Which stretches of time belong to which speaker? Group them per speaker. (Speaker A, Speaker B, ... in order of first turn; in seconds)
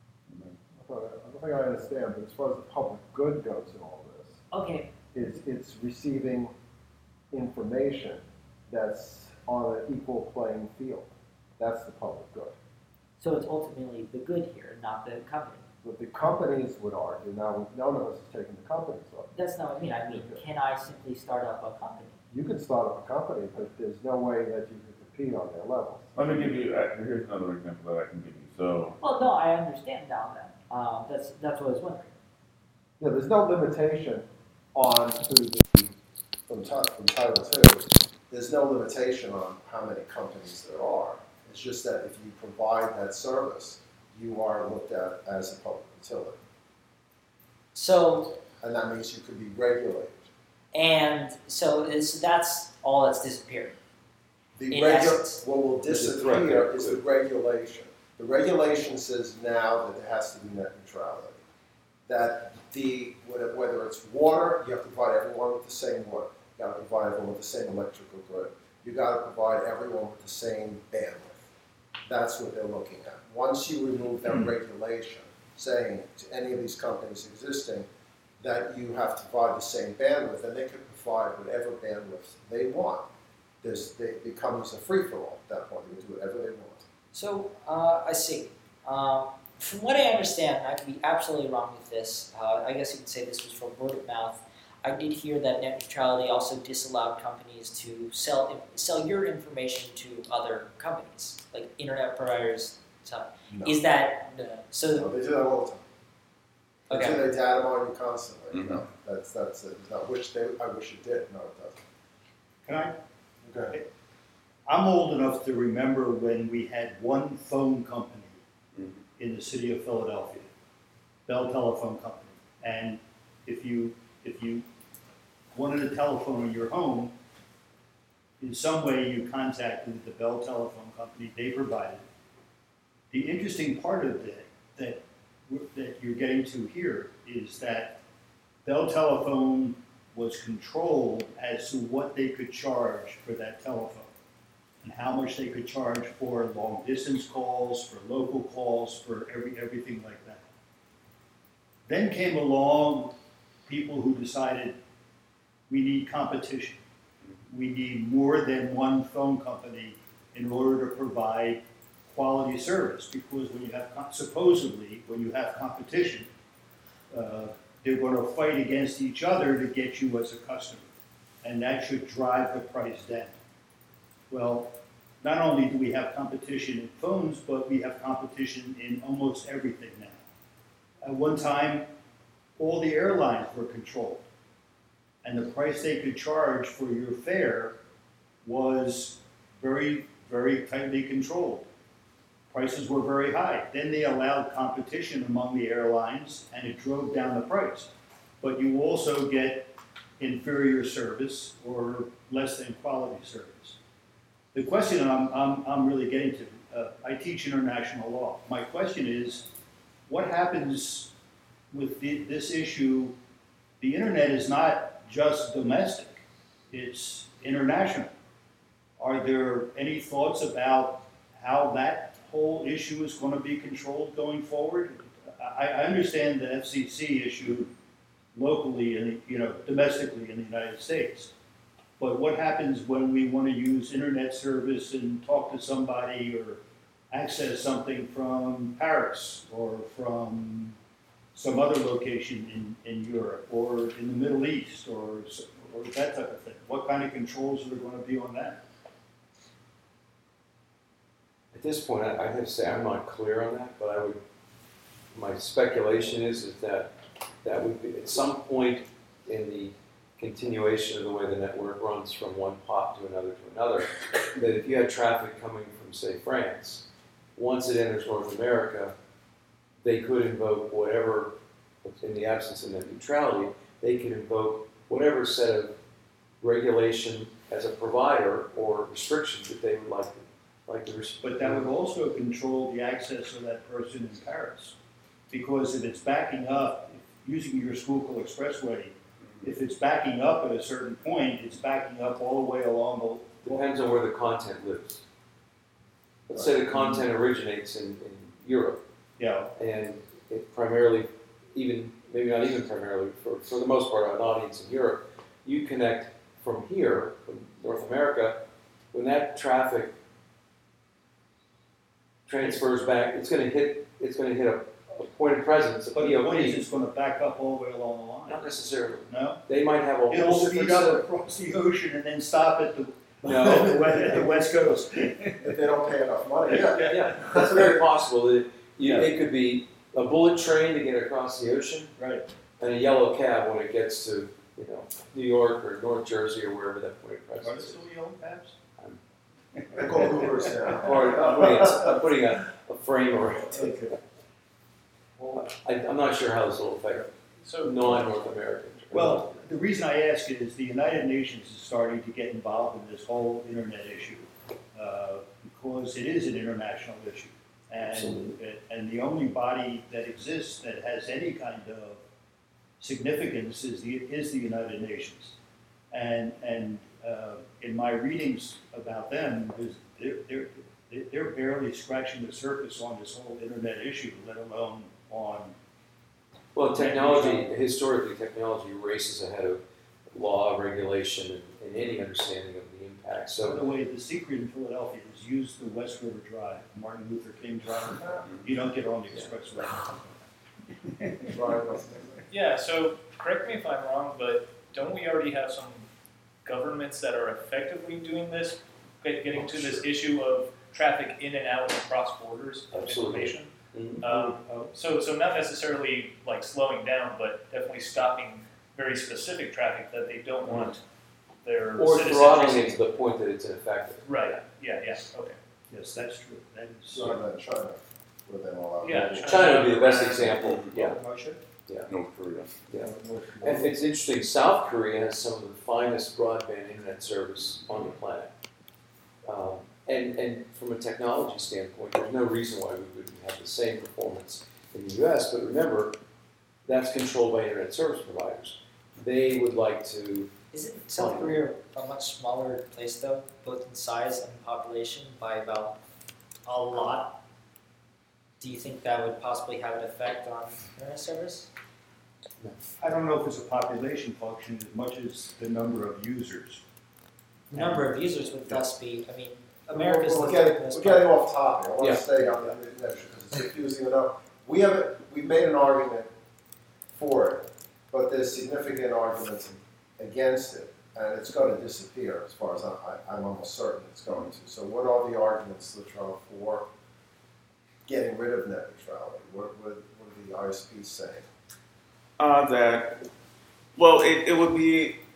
Speaker A: 0.7-4.4, 5.1-6.5, 7.3-12.6, 15.8-19.3, 20.1-20.4, 22.3-26.2, 33.0-35.9, 36.5-46.4, 48.6-50.1, 54.6-61.4, 62.1-71.4, 72.1-77.9, 78.4-83.1, 83.6-86.8, 103.5-103.8, 104.9-105.8, 106.9-111.8, 113.4-113.8, 325.4-327.7, 339.7-342.0, 391.3-392.2, 416.9-419.5, 459.7-466.1, 466.9-476.7, 477.9-481.3
Speaker B: 4.5-4.9, 13.2-15.6, 19.3-22.2, 29.0-32.1, 47.8-48.4, 50.7-53.8, 54.7-55.4, 87.1-105.1, 106.9-107.2, 440.5-445.8, 446.4-447.2, 448.4-451.5, 457.5-461.2
Speaker C: 26.2-29.0, 108.5-108.8, 118.8-119.0, 420.4-420.7, 421.9-422.6, 482.2-483.0, 483.8-485.0
Speaker D: 55.9-57.0, 251.5-254.2, 255.1-256.9, 257.4-268.9, 269.8-275.8, 276.4-281.7, 293.4-295.0, 296.3-298.8, 299.6-309.9, 312.3-316.6, 318.3-321.1, 323.2-324.3, 326.8-331.9, 332.6-337.9, 340.8-343.8, 345.3-347.1, 347.6-349.4, 357.8-358.4, 376.6-383.6, 402.7-404.0, 411.8-414.4, 418.9-421.0, 422.7-428.3, 429.2-436.0, 436.6-440.3, 440.9-441.4, 461.8-462.1
Speaker E: 112.7-113.0, 114.7-118.4, 119.2-120.5, 121.3-124.7, 125.5-127.1, 128.4-132.1, 133.1-138.0, 138.7-144.1, 144.8-150.4, 151.9-153.2, 153.7-154.8, 155.7-156.8, 157.5-166.3, 167.1-170.9, 171.4-173.3, 174.3-180.2, 181.0-181.9, 182.6-184.2, 185.2-187.8, 188.4-191.7, 192.5-203.8, 204.5-209.5, 210.1-211.1, 211.7-213.2, 213.8-218.1, 219.0-227.7, 228.3-231.3, 232.0-240.8, 241.3-248.6, 281.2-284.8, 285.3-293.7, 299.2-299.5, 315.9-318.5, 319.1-319.4, 320.1-325.6, 326.5-327.2, 328.8-329.1, 332.0-332.2, 337.4-338.6, 339.6-340.8, 343.6-343.9, 348.9-362.0, 362.8-365.4, 365.9-375.6, 376.7-377.6, 383.4-390.1, 391.0-391.4, 404.0-404.4, 415.7-417.2, 420.8-421.4, 422.8-423.7, 452.8-456.6
Speaker F: 347.4-347.9, 392.3-395.9, 396.4-410.8, 411.4-412.8, 414.1-415.4, 418.8-421.1